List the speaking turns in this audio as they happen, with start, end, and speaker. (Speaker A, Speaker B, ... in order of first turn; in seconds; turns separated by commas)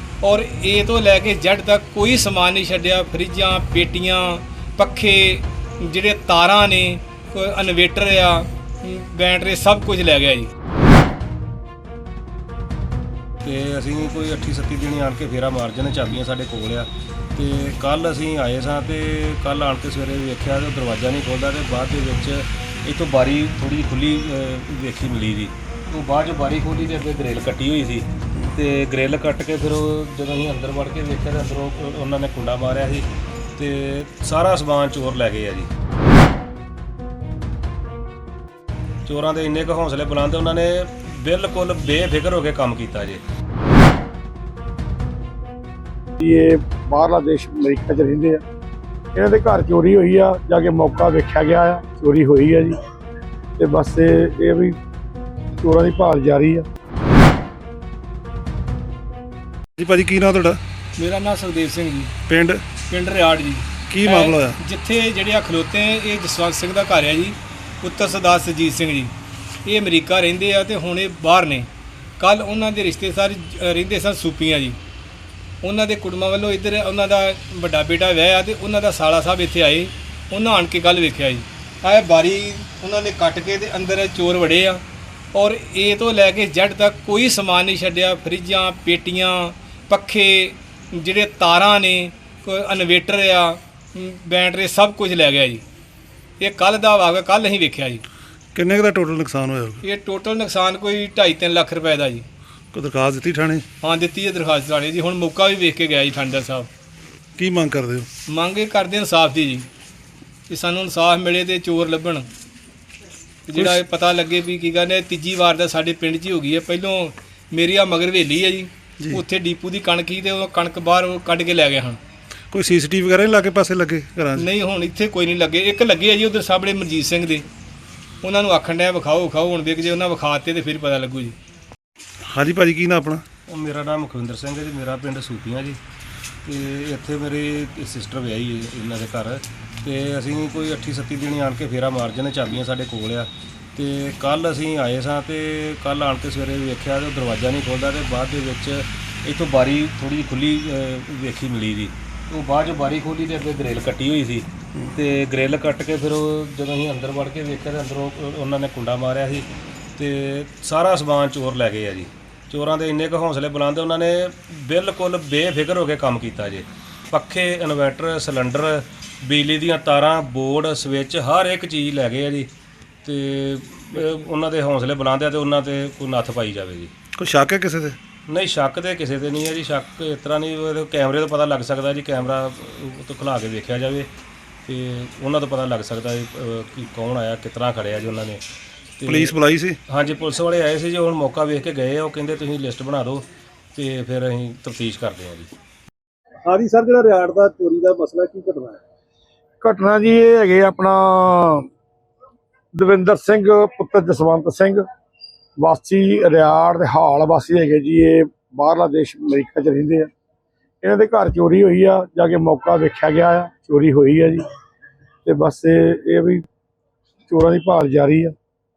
Speaker A: 0.2-10.5, Speaker B: 13.4-35.7, Speaker B: 39.1-43.2, Speaker C: 46.2-48.4, Speaker C: 49.1-52.8, Speaker C: 53.6-54.8, Speaker C: 55.6-56.6, Speaker D: 59.8-60.6, Speaker A: 61.0-62.1, Speaker D: 62.3-62.6, Speaker A: 62.9-69.1, Speaker D: 63.9-64.6, Speaker A: 69.7-74.8, Speaker A: 75.6-84.8, Speaker A: 85.3-95.6, Speaker A: 96.4-98.0, Speaker D: 98.5-99.8, Speaker A: 99.8-102.3, Speaker D: 102.7-103.7, Speaker A: 103.8-106.7, Speaker D: 107.4-108.1, Speaker A: 108.3-109.7, Speaker A: 110.5-112.3, Speaker A: 113.5-122.0, Speaker D: 122.5-124.5, Speaker A: 124.4-127.5, Speaker A: 128.2-131.3, Speaker D: 132.2-133.2, Speaker B: 133.5-135.8, Speaker B: 136.4-172.5, Speaker B: 173.1-176.9, Speaker D: 177.2-178.0, Speaker B: 178.3-184.1, Speaker B: 184.7-188.4, Speaker B: 189.0-189.4, Speaker D: 189.1-189.8, Speaker B: 189.9-195.5, Speaker E: 196.4-198.8, Speaker C: 199.6-201.7, Speaker C: 202.7-204.8, Speaker C: 205.6-210.1, Speaker C: 210.8-214.4, Speaker C: 215.2-216.4, Speaker C: 217.3-218.3